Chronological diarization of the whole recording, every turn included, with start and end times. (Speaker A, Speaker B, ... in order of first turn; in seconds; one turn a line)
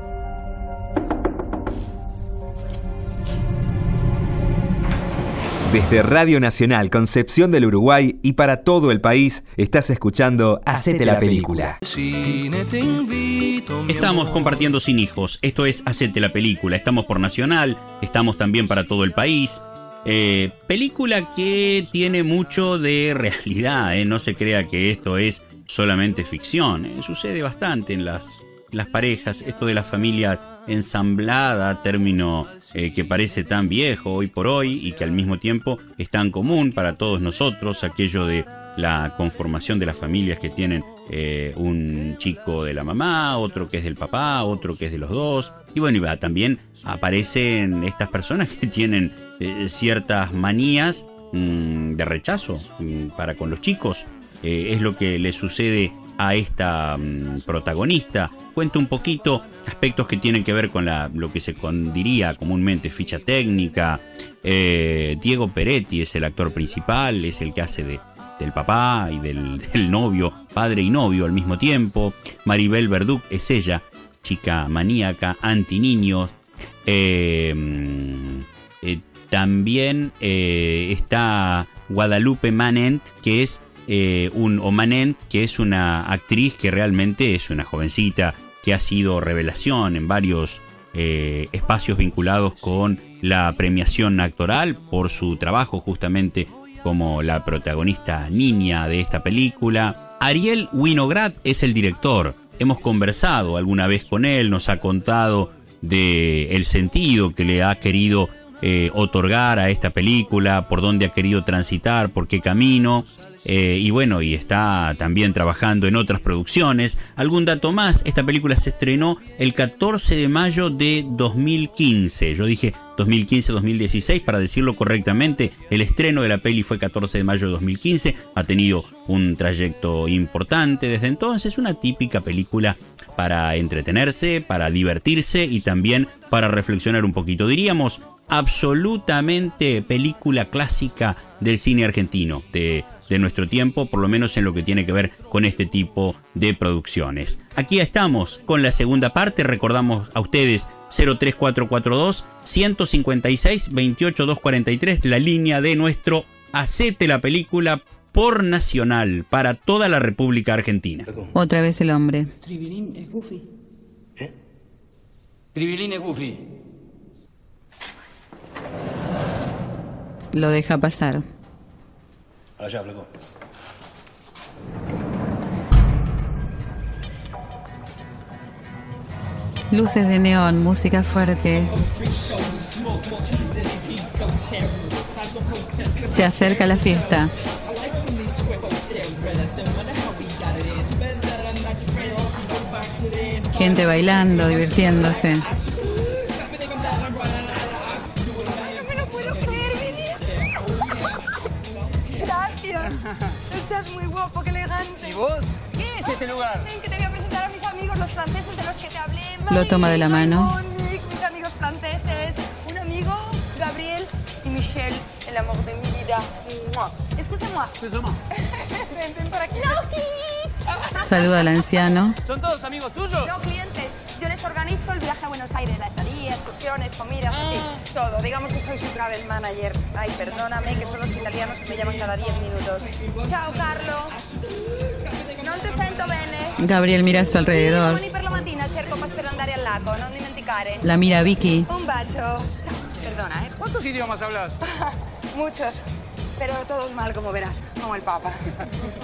Speaker A: 5.6-11.8
Speaker B: 13.8-76.3
Speaker B: 76.8-161.1
Speaker C: 161.3-162.3
Speaker D: 162.4-163.5
Speaker D: 165.5-166.5
Speaker C: 170.3-171.2
Speaker C: 179.7-181.8
Speaker C: 186.1-187.3
Speaker C: 193.5-195.5
Speaker E: 198.4-200.4
Speaker E: 202.1-202.9
Speaker E: 203.5-205.2
Speaker D: 205.0-206.7
Speaker E: 206.6-217.7
Speaker C: 209.5-210.5
Speaker D: 217.8-218.2
Speaker E: 218.5-220.5
Speaker C: 221.0-222.2
Speaker D: 222.2-223.3
Speaker E: 223.2-234.2
Speaker D: 227.3-227.8
Speaker E: 235.3-236.6
Speaker C: 236.6-238.0
Speaker E: 237.4-240.9
Speaker C: 240.8-241.7
Speaker E: 241.7-243.5
Speaker D: 243.6-244.6
Speaker E: 244.7-245.8
Speaker E: 246.4-248.6